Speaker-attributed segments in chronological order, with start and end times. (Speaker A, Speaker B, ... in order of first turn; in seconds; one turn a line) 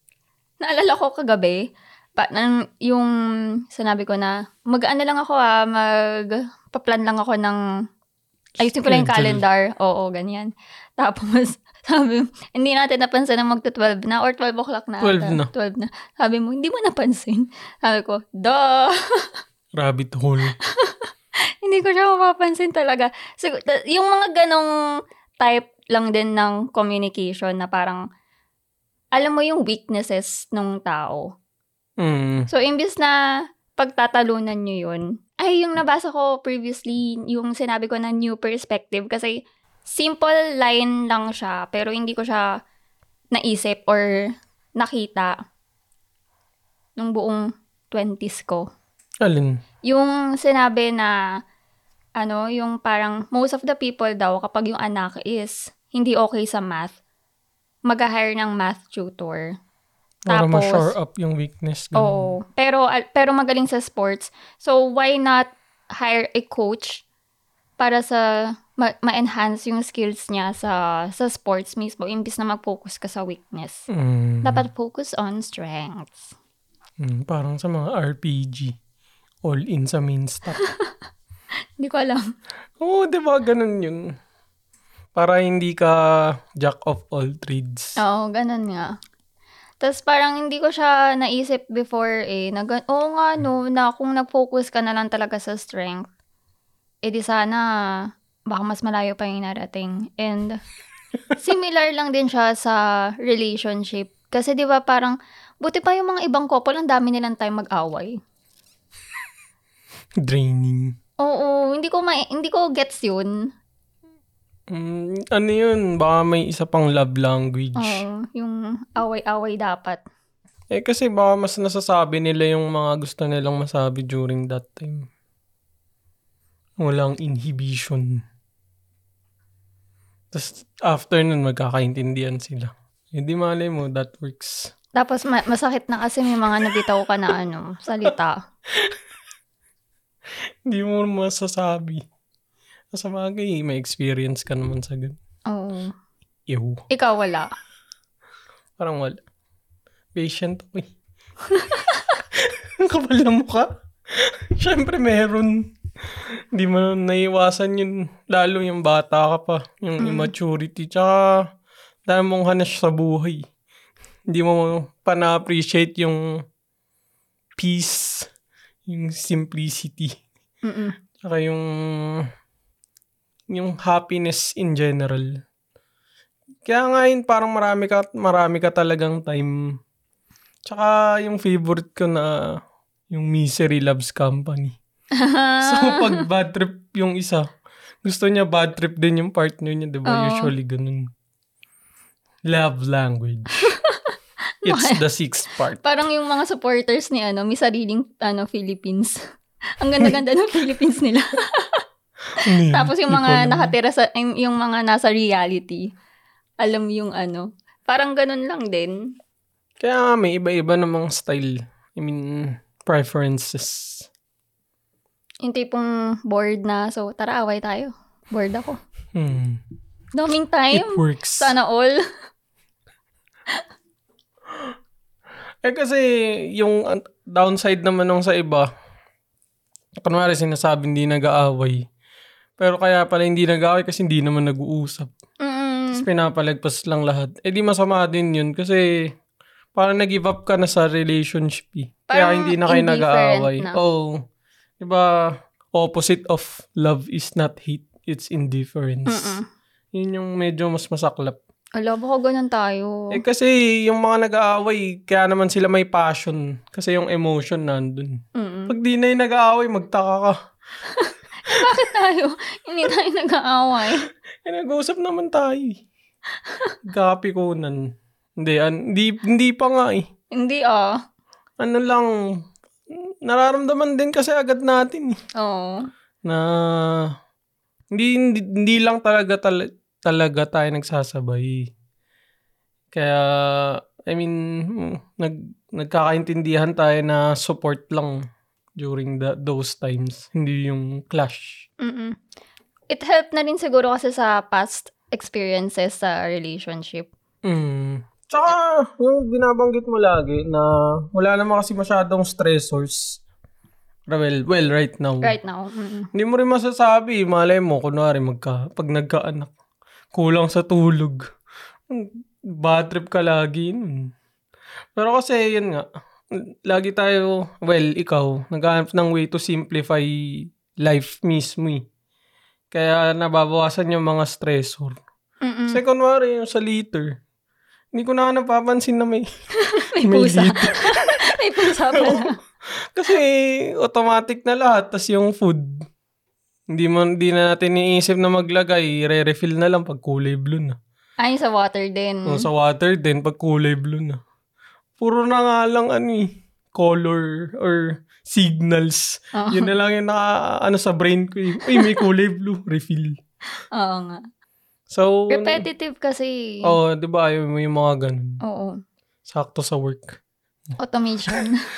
Speaker A: 0.6-3.1
Speaker A: 3.7-7.6
Speaker A: 8.6-19.3
Speaker B: 8.8-9.4
Speaker B: 15.0-15.5
Speaker B: 19.8-20.6
Speaker A: 20.6-21.1
Speaker A: 21.6-24.7
Speaker A: 25.4-28.0
Speaker A: 29.1-31.4
Speaker B: 32.0-32.5
Speaker A: 32.5-33.2
Speaker A: 33.8-42.6
Speaker A: 43.3-45.4
Speaker A: 47.0-48.7
Speaker B: 49.2-49.6
Speaker A: 49.9-51.2
Speaker A: 52.2-57.0
Speaker A: 57.9-59.5
Speaker B: 60.3-62.3
Speaker A: 60.3-61.0
Speaker A: 62.0-67.0
Speaker A: 67.8-73.9
Speaker B: 73.9-74.7
Speaker A: 74.4-76.3
Speaker B: 77.0-78.8
Speaker B: 79.4-80.6
Speaker A: 80.6-80.9
Speaker A: 81.8-82.3
Speaker B: 82.8-84.2
Speaker B: 85.2-88.0
Speaker A: 88.0-88.9
Speaker A: 89.8-96.1
Speaker A: 97.0-100.5
Speaker A: 101.4-108.1
Speaker B: 110.2-111.0
Speaker A: 111.2-113.5
Speaker B: 114.7-118.0
Speaker A: 117.8-120.0
Speaker B: 120.7-125.1
Speaker B: 126.8-128.2
Speaker B: 130.3-134.7
Speaker A: 135.0-138.4
Speaker B: 138.7-139.0
Speaker B: 140.7-142.0
Speaker B: 142.9-145.2
Speaker A: 145.5-145.9
Speaker B: 146.5-146.8
Speaker A: 146.9-147.5
Speaker B: 148.8-149.2
Speaker B: 150.2-150.9
Speaker A: 151.5-152.1
Speaker B: 152.3-161.5
Speaker A: 160.0-160.3
Speaker B: 162.1-163.4
Speaker B: 164.3-166.3
Speaker B: 167.6-168.3
Speaker B: 168.9-170.2
Speaker A: 170.6-171.0
Speaker B: 171.2-172.3
Speaker B: 173.5-175.3
Speaker B: 176.7-179.7
Speaker B: 180.7-182.6
Speaker B: 183.1-184.8
Speaker A: 185.2-186.2
Speaker B: 185.6-187.5
Speaker B: 188.0-191.1
Speaker A: 190.1-190.5
Speaker B: 192.5-193.7
Speaker A: 193.6-195.0
Speaker B: 194.7-195.8
Speaker A: 195.8-199.2
Speaker A: 199.8-201.8
Speaker B: 202.4-203.8
Speaker A: 202.5-205.9
Speaker A: 206.6-209.0
Speaker B: 209.8-214.1
Speaker A: 215.4-218.8
Speaker B: 219.2-219.6
Speaker A: 220.2-222.0
Speaker B: 220.7-221.5
Speaker B: 225.6-228.7
Speaker B: 230.0-231.8
Speaker B: 232.6-235.1
Speaker A: 235.4-236.1
Speaker B: 235.9-238.9
Speaker B: 239.8-244.2
Speaker A: 242.1-243.8
Speaker B: 244.8-249.4
Speaker A: 249.1-249.4
Speaker B: 249.9-251.4
Speaker A: 251.8-253.2
Speaker B: 253.1-260.3
Speaker A: 258.4-258.7
Speaker A: 260.9-264.1
Speaker B: 264.4-265.8
Speaker A: 266.4-266.7
Speaker B: 266.9-270.1
Speaker A: 270.3-271.0
Speaker B: 271.6-272.1
Speaker B: 272.9-275.2
Speaker A: 275.4-275.8
Speaker B: 276.2-277.1
Speaker B: 277.9-281.7
Speaker B: 282.9-288.2
Speaker B: 288.8-291.6
Speaker A: 291.8-292.2
Speaker A: 292.9-297.1
Speaker B: 297.4-303.2
Speaker B: 304.1-305.3
Speaker A: 305.2-306.1
Speaker B: 306.1-309.5
Speaker B: 310.1-311.2
Speaker B: 311.9-314.1
Speaker B: 315.0-321.8
Speaker B: 322.7-325.0
Speaker A: 325.4-325.8
Speaker B: 325.7-327.2
Speaker B: 327.9-329.2
Speaker A: 329.6-332.4
Speaker B: 330.0-335.9
Speaker B: 336.7-340.8
Speaker A: 341.2-342.5
Speaker B: 342.3-344.2
Speaker B: 345.0-353.2
Speaker A: 349.4-349.7
Speaker A: 351.6-352.0
Speaker A: 353.7-354.2
Speaker B: 354.9-355.6
Speaker A: 355.3-356.8
Speaker B: 356.6-358.4
Speaker A: 358.4-358.8
Speaker B: 359.3-360.2
Speaker A: 360.8-361.7